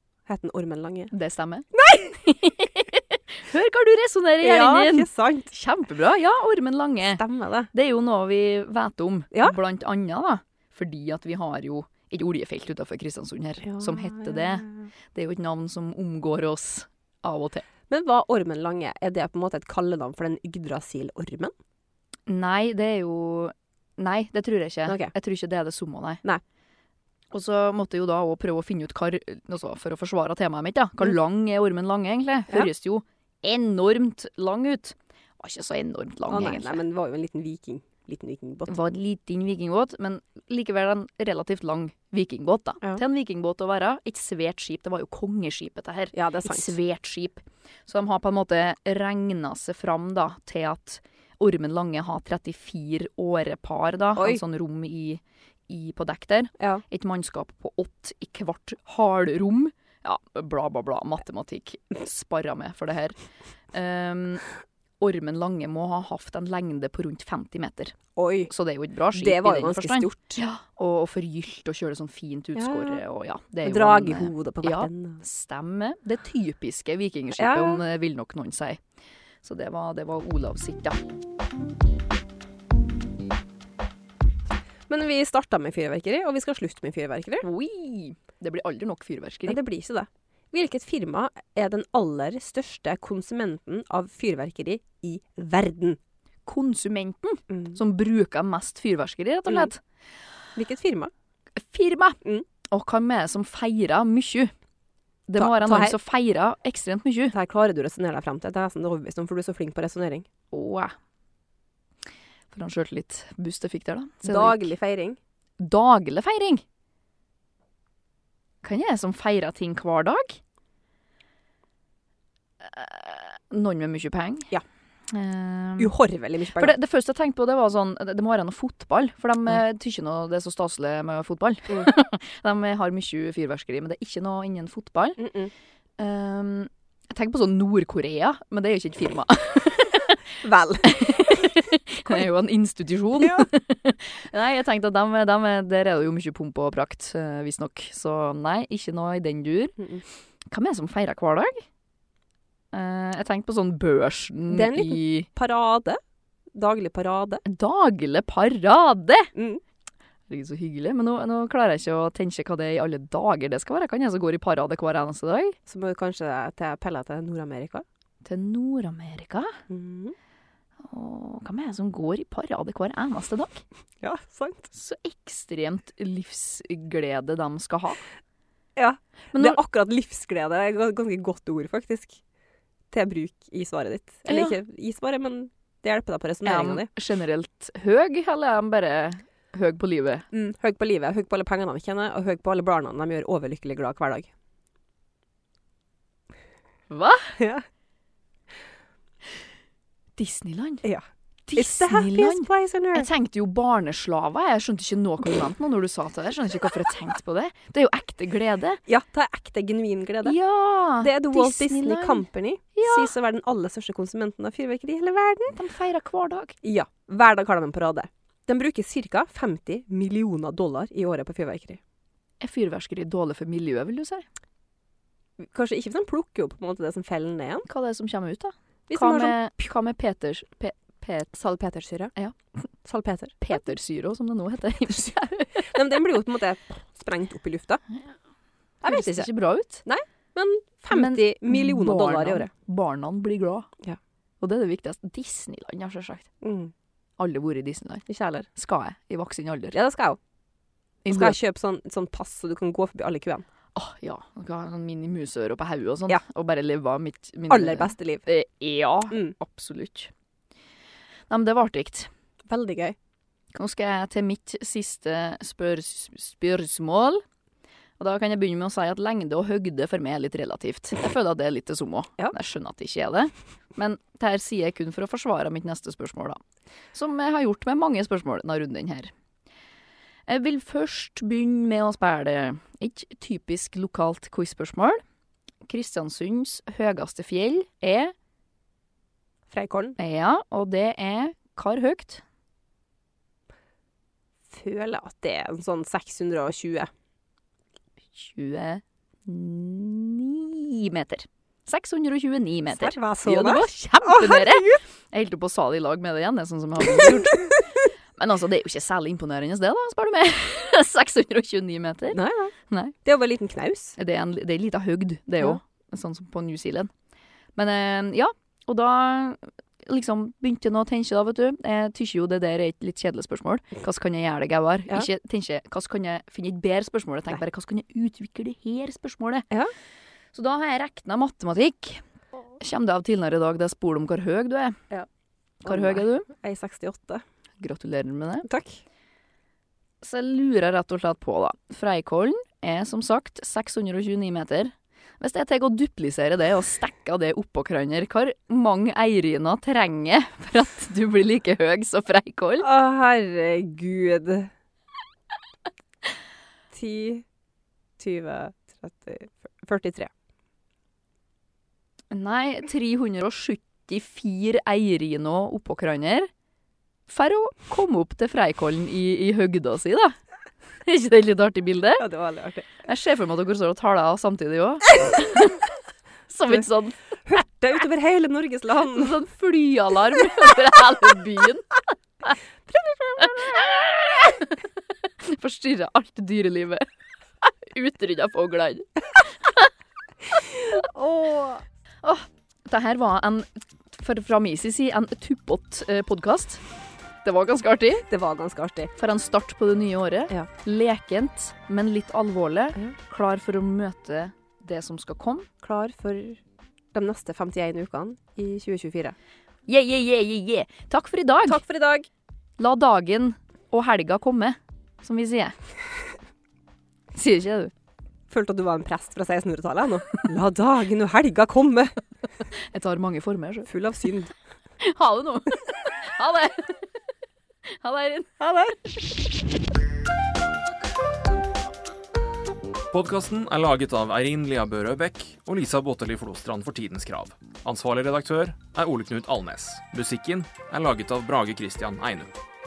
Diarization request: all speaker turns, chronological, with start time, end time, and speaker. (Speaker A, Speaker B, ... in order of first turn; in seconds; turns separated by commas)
Speaker A: 0.3-1.1, Speaker B: 1.1-17.7, Speaker A: 1.7-2.1, Speaker A: 4.4-5.5, Speaker A: 7.1-7.7, Speaker A: 13.6-14.9, Speaker A: 17.9-21.5, Speaker B: 22.3-26.2, Speaker A: 24.9-25.1, Speaker B: 27.3-36.8, Speaker A: 36.3-38.8, Speaker B: 38.7-63.2, Speaker A: 46.1-46.7, Speaker B: 63.7-64.5, Speaker B: 65.0-68.0, Speaker A: 68.2-68.5, Speaker B: 68.5-78.8, Speaker A: 69.1-70.4, Speaker A: 72.6-73.0, Speaker A: 73.7-75.2, Speaker A: 77.4-77.8, Speaker B: 79.4-81.0, Speaker A: 84.9-87.5, Speaker B: 87.4-89.6, Speaker A: 89.5-96.0, Speaker B: 96.5-99.8, Speaker A: 97.5-97.8, Speaker A: 100.6-101.1, Speaker B: 101.6-104.5, Speaker B: 105.3-107.3, Speaker A: 105.4-106.0, Speaker A: 107.3-110.3, Speaker B: 110.5-110.9, Speaker B: 112.5-114.7, Speaker A: 114.2-115.2, Speaker B: 115.6-116.6, Speaker B: 118.6-120.4, Speaker B: 122.6-124.5, Speaker B: 125.1-125.9, Speaker A: 125.8-126.7, Speaker B: 126.6-135.2, Speaker A: 135.2-135.5, Speaker B: 136.0-140.2, Speaker A: 140.4-141.4, Speaker B: 140.8-149.8, Speaker A: 143.2-143.5, Speaker B: 150.5-151.7, Speaker B: 152.7-155.3, Speaker A: 154.5-156.0, Speaker A: 156.6-157.4, Speaker B: 157.4-159.3, Speaker A: 159.3-159.6, Speaker B: 160.3-165.6, Speaker A: 165.7-167.8, Speaker B: 168.2-169.6, Speaker A: 169.7-170.2, Speaker B: 170.8-173.6, Speaker A: 174.0-174.7, Speaker B: 174.7-178.0, Speaker A: 178.8-182.2, Speaker B: 179.3-179.6, Speaker A: 182.9-186.9, Speaker B: 184.3-184.6, Speaker B: 186.4-190.3, Speaker A: 190.3-194.3, Speaker B: 196.9-197.4, Speaker A: 197.4-197.7, Speaker B: 200.2-200.8, Speaker B: 201.5-208.8, Speaker A: 201.6-203.1, Speaker A: 208.9-210.4, Speaker B: 210.2-213.1, Speaker A: 211.0-215.6, Speaker B: 215.5-216.6, Speaker A: 216.6-221.8, Speaker B: 222.4-224.2, Speaker A: 225.4-227.7, Speaker B: 227.7-231.3, Speaker A: 228.9-229.4, Speaker A: 231.3-232.1, Speaker A: 232.8-233.4, Speaker B: 233.4-235.7, Speaker A: 235.7-237.8, Speaker A: 238.8-239.3, Speaker B: 238.9-239.8, Speaker A: 239.8-242.5, Speaker B: 240.9-243.7, Speaker B: 244.4-246.3, Speaker A: 246.4-246.7, Speaker B: 247.2-248.0, Speaker A: 248.1-248.5, Speaker B: 248.6-249.8, Speaker A: 249.7-250.2, Speaker B: 251.1-251.4, Speaker A: 251.1-253.4, Speaker B: 253.8-260.1, Speaker A: 257.5-258.3, Speaker B: 261.3-262.1, Speaker A: 262.5-263.0, Speaker B: 263.5-267.2, Speaker B: 268.0-276.4, Speaker B: 276.9-279.1, Speaker B: 280.3-285.0, Speaker B: 285.6-288.1, Speaker A: 289.5-290.0, Speaker B: 290.0-292.2, Speaker A: 294.5-296.9, Speaker B: 298.1-307.4, Speaker A: 302.8-304.8, Speaker A: 306.9-307.6, Speaker B: 308.2-312.9, Speaker A: 312.1-312.5, Speaker A: 313.1-314.0, Speaker B: 314.0-316.9, Speaker B: 317.6-329.5, Speaker B: 330.3-332.0, Speaker B: 332.6-334.8, Speaker B: 335.6-336.3, Speaker A: 335.6-337.2, Speaker B: 337.6-338.5, Speaker A: 338.5-338.8, Speaker B: 340.0-352.7, Speaker A: 352.6-354.5, Speaker A: 356.7-357.2, Speaker A: 358.0-360.1, Speaker B: 362.1-366.3, Speaker B: 367.1-370.1, Speaker B: 370.8-372.0, Speaker A: 372.0-372.7, Speaker B: 372.8-375.6, Speaker B: 376.3-376.9, Speaker A: 377.2-379.2, Speaker B: 378.9-382.4, Speaker A: 382.7-383.7, Speaker B: 384.0-384.6, Speaker B: 385.2-386.9, Speaker B: 387.4-389.7, Speaker A: 390.7-391.6, Speaker B: 392.0-396.6, Speaker B: 397.2-398.1, Speaker A: 398.1-398.9, Speaker B: 399.0-405.5, Speaker A: 405.6-406.4, Speaker A: 406.9-409.1, Speaker B: 409.7-411.6, Speaker A: 411.5-412.1, Speaker B: 412.6-415.6, Speaker B: 417.1-417.7, Speaker A: 418.3-422.0, Speaker B: 422.7-423.7, Speaker A: 423.7-424.3, Speaker B: 424.8-426.8, Speaker B: 427.8-428.5, Speaker A: 428.4-428.8, Speaker C: 432.9-442.3